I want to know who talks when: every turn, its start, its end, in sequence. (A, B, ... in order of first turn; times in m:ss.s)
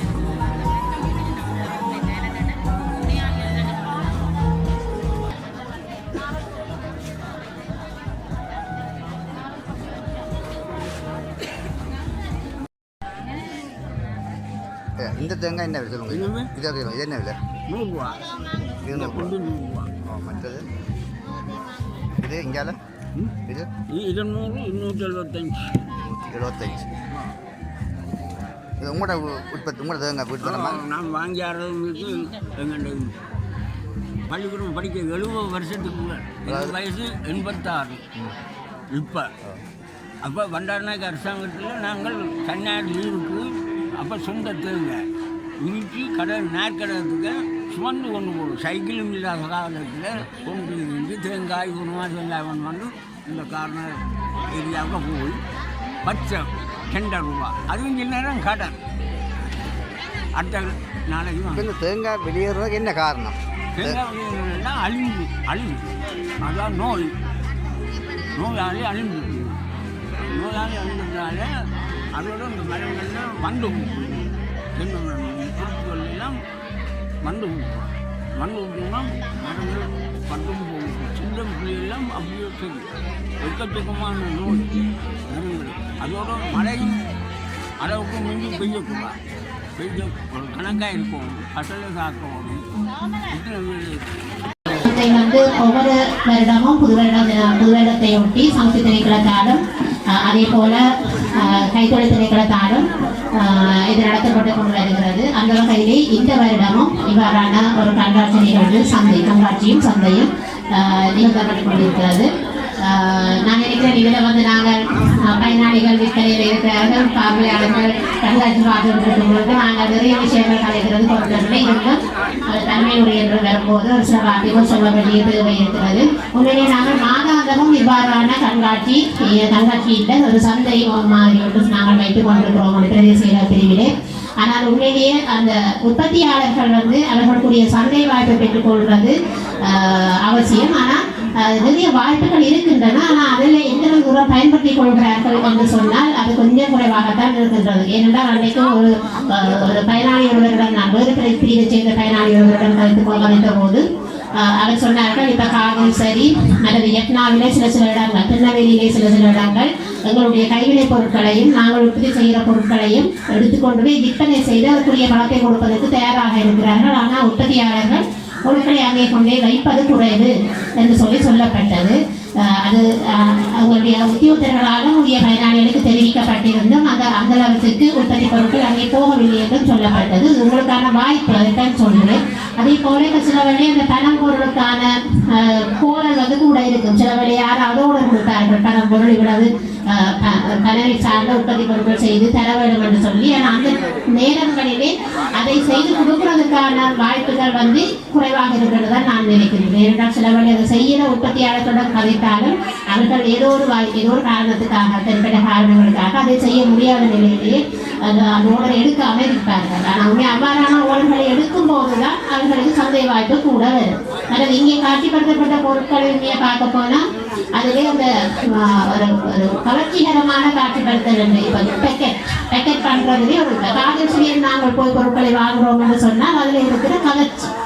0:15.0-0:17.4 A
0:16.1-0:16.5 B
0:17.7-0:18.2 B
0:18.8-0:19.3 A
0:18.9-0:19.9 B
0:20.0-0:20.7 A
0:22.2-0:22.8 A
0:23.9-0:25.6 B
0:26.0-0:26.9 A
0:28.8-0:30.8 A
0:30.4-0:33.1 B
0:34.3-0:38.0 B
0:36.5-0:36.7 A
0:38.9-0:39.3 B
0:40.2-0:45.0 B
0:45.6-0:55.4 B
0:56.0-0:58.8 B
1:00.4-1:01.7 B
1:01.5-1:04.0 A
1:03.8-1:05.8 B
1:06.4-1:07.2 B
1:08.4-1:09.6 B
1:10.2-1:16.4 B
1:17.2-1:27.0 B
1:27.8-1:29.2 B
1:29.8-1:32.6 B
1:33.3-1:34.1 B
1:34.8-2:33.8 C
2:34.4-3:37.0 C
3:37.6-3:47.5 C